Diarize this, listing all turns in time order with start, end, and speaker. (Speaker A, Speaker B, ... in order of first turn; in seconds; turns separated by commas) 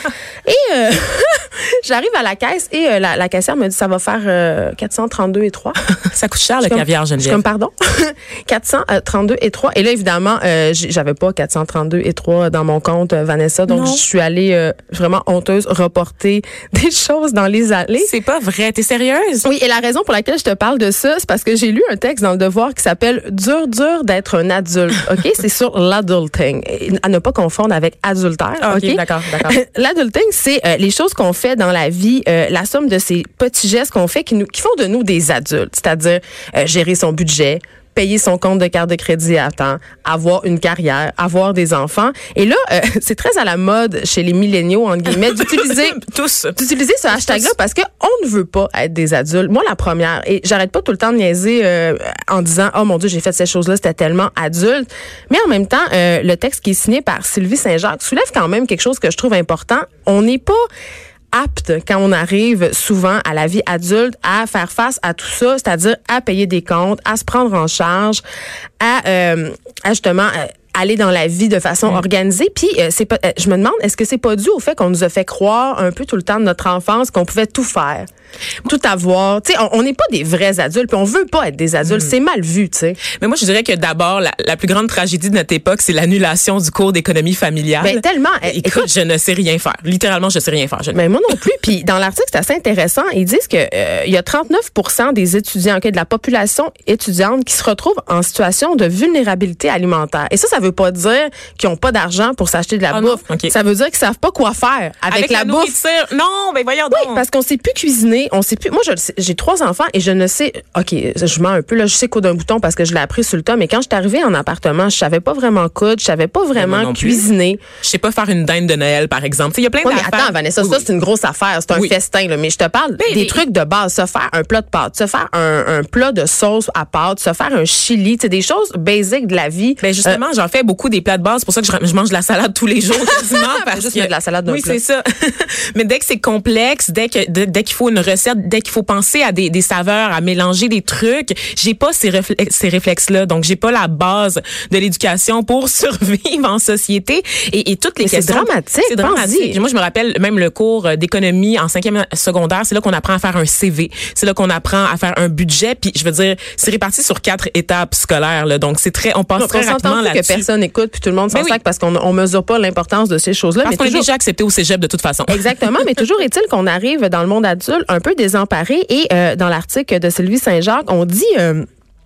Speaker A: 0.4-5.8, Speaker B: 6.0-7.4, Speaker A: 6.6-18.1, Speaker B: 13.7-14.0, Speaker B: 18.0-19.4, Speaker A: 19.4-46.0, Speaker B: 28.6-29.6, Speaker B: 45.1-46.6, Speaker A: 46.5-60.6, Speaker B: 47.1-47.5, Speaker A: 61.3-68.2, Speaker A: 68.8-78.0, Speaker A: 78.6-83.0, Speaker B: 81.8-82.1, Speaker B: 83.2-91.4, Speaker A: 87.8-88.9, Speaker A: 90.9-105.8, Speaker B: 102.9-103.5, Speaker B: 105.1-107.2, Speaker A: 106.9-117.6, Speaker B: 116.5-117.3, Speaker B: 117.8-120.9, Speaker A: 119.8-130.2, Speaker B: 123.0-123.4, Speaker B: 129.8-160.4, Speaker A: 133.0-134.8, Speaker A: 148.0-149.6, Speaker A: 159.3-164.1, Speaker B: 161.3-161.6, Speaker B: 163.6-165.8, Speaker A: 165.3-171.6